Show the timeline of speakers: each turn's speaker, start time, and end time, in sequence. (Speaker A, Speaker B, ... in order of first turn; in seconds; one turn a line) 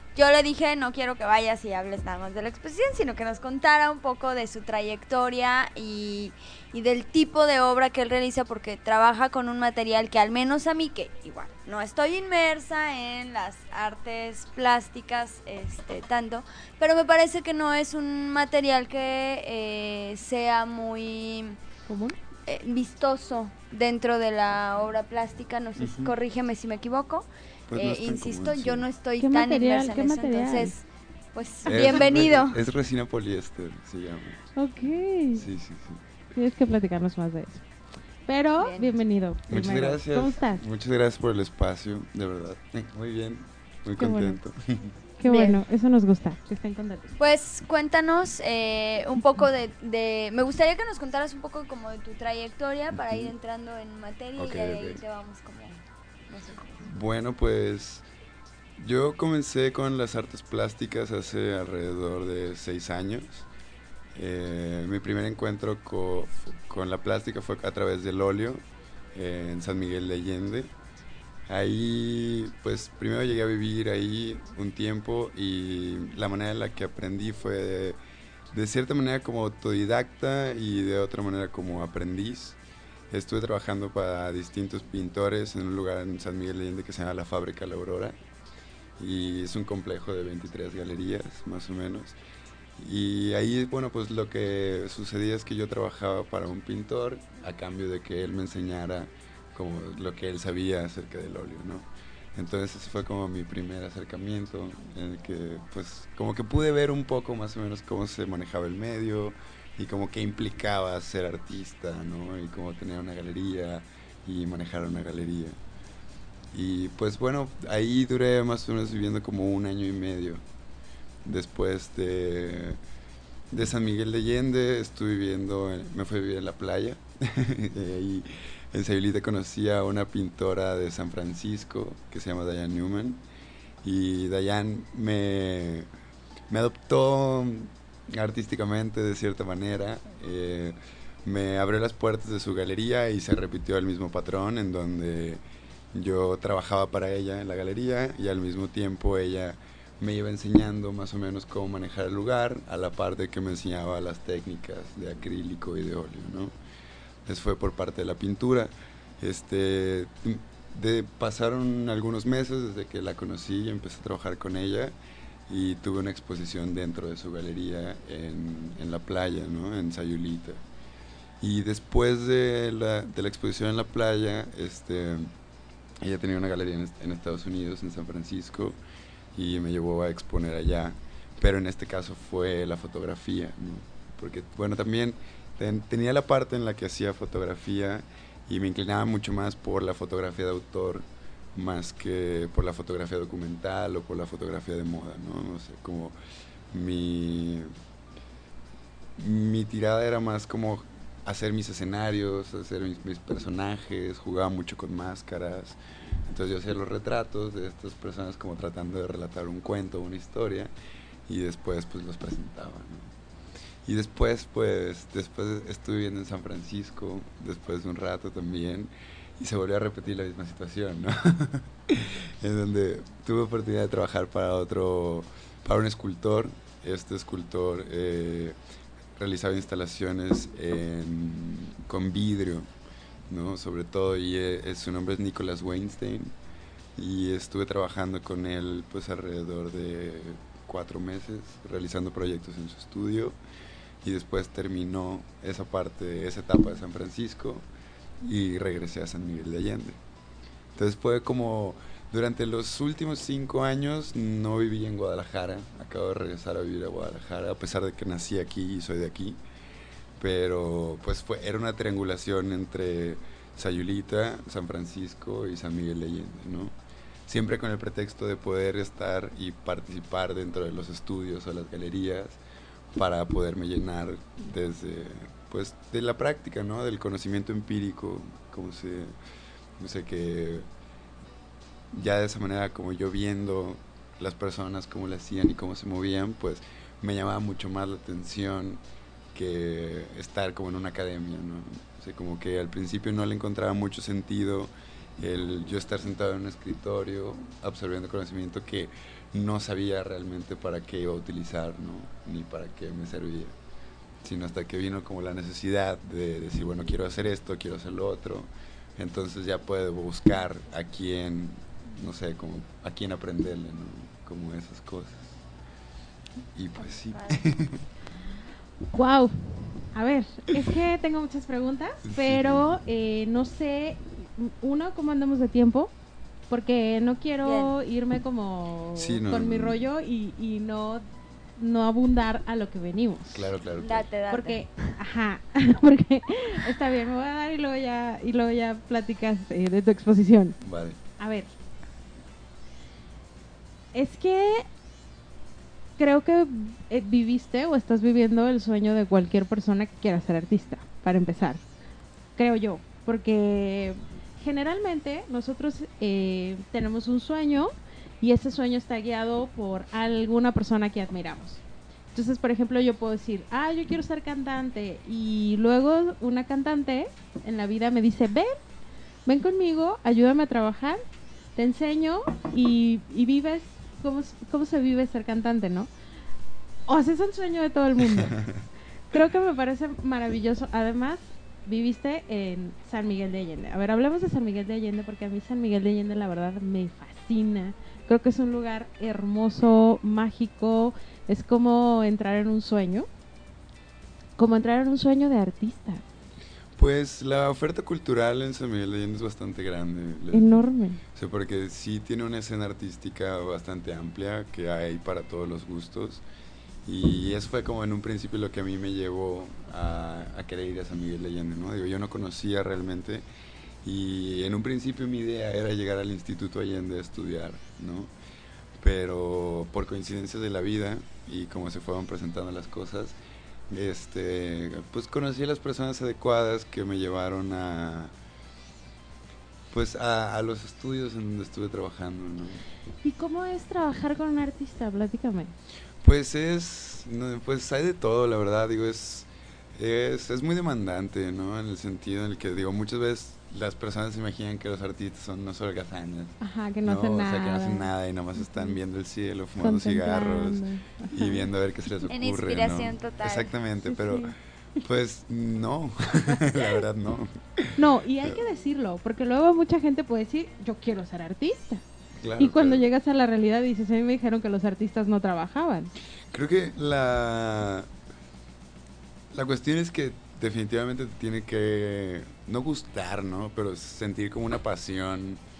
Speaker A: 0.1-21.6
Speaker B: 21.9-22.2
Speaker A: 22.4-32.6
Speaker C: 25.8-26.1
Speaker C: 27.7-28.9
Speaker B: 29.2-30.7
Speaker C: 31.7-34.4
Speaker B: 34.5-35.4
Speaker C: 35.3-36.0
Speaker B: 36.3-37.6
Speaker B: 38.3-40.6
Speaker A: 38.6-39.0
Speaker C: 39.5-44.9
Speaker B: 44.0-44.4
Speaker B: 45.2-47.1
Speaker A: 45.2-45.6
Speaker A: 47.2-56.8
Speaker C: 52.9-53.3
Speaker C: 54.4-55.0
Speaker C: 56.8-58.0
Speaker C: 58.8-63.5
Speaker C: 64.1-68.6
Speaker C: 69.1-70.7
Speaker C: 71.5-78.0
Speaker C: 78.5-82.6
Speaker C: 83.1-88.1
Speaker C: 89.0-92.2
Speaker C: 92.8-115.5
Speaker C: 116.5-120.4
Speaker C: 121.2-122.8
Speaker C: 123.5-133.2
Speaker C: 133.8-135.9
Speaker C: 136.5-145.4
Speaker C: 145.9-156.5
Speaker C: 157.2-164.9
Speaker C: 165.5-170.6
Speaker C: 171.4-175.3
Speaker C: 176.0-178.8
Speaker C: 179.3-196.1
Speaker C: 196.7-197.7
Speaker C: 199.2-210.7
Speaker C: 211.3-213.1
Speaker C: 213.8-228.6
Speaker C: 229.2-232.7
Speaker C: 233.3-236.3
Speaker C: 236.9-243.4
Speaker C: 244.0-247.6
Speaker C: 248.2-250.0
Speaker C: 250.7-259.4
Speaker C: 260.2-266.7
Speaker C: 267.3-272.4
Speaker C: 272.9-279.1
Speaker C: 279.8-280.7
Speaker C: 281.9-303.5
Speaker C: 304.2-315.4
Speaker C: 316.5-317.9
Speaker A: 316.9-317.5
Speaker B: 318.9-325.9
Speaker C: 322.0-322.7
Speaker B: 326.5-331.0
Speaker A: 327.4-327.8
Speaker C: 328.9-329.8
Speaker B: 331.6-333.5
Speaker C: 333.3-334.1
Speaker A: 333.7-334.9
Speaker B: 334.3-340.6
Speaker C: 340.6-341.0
Speaker B: 341.2-341.5
Speaker B: 343.9-344.6
Speaker B: 346.0-351.6
Speaker B: 352.4-361.6
Speaker B: 362.1-368.6
Speaker B: 369.2-371.0
Speaker B: 371.6-375.9
Speaker B: 376.9-378.4
Speaker C: 378.0-378.6
Speaker B: 379.1-393.1
Speaker B: 394.4-396.0
Speaker C: 396.8-400.6
Speaker B: 400.3-401.0
Speaker C: 401.1-406.2
Speaker C: 406.8-413.2
Speaker C: 413.8-418.1
Speaker C: 418.8-423.2
Speaker C: 423.7-428.1
Speaker C: 429.7-432.6
Speaker B: 433.0-435.5
Speaker C: 436.0-458.4
Speaker B: 446.4-448.8
Speaker B: 449.6-451.4
Speaker A: 452.1-453.5
Speaker B: 453.9-454.3
Speaker B: 457.8-461.8
Speaker C: 462.2-462.9
Speaker B: 462.4-465.9
Speaker C: 466.3-467.9
Speaker C: 469.3-475.4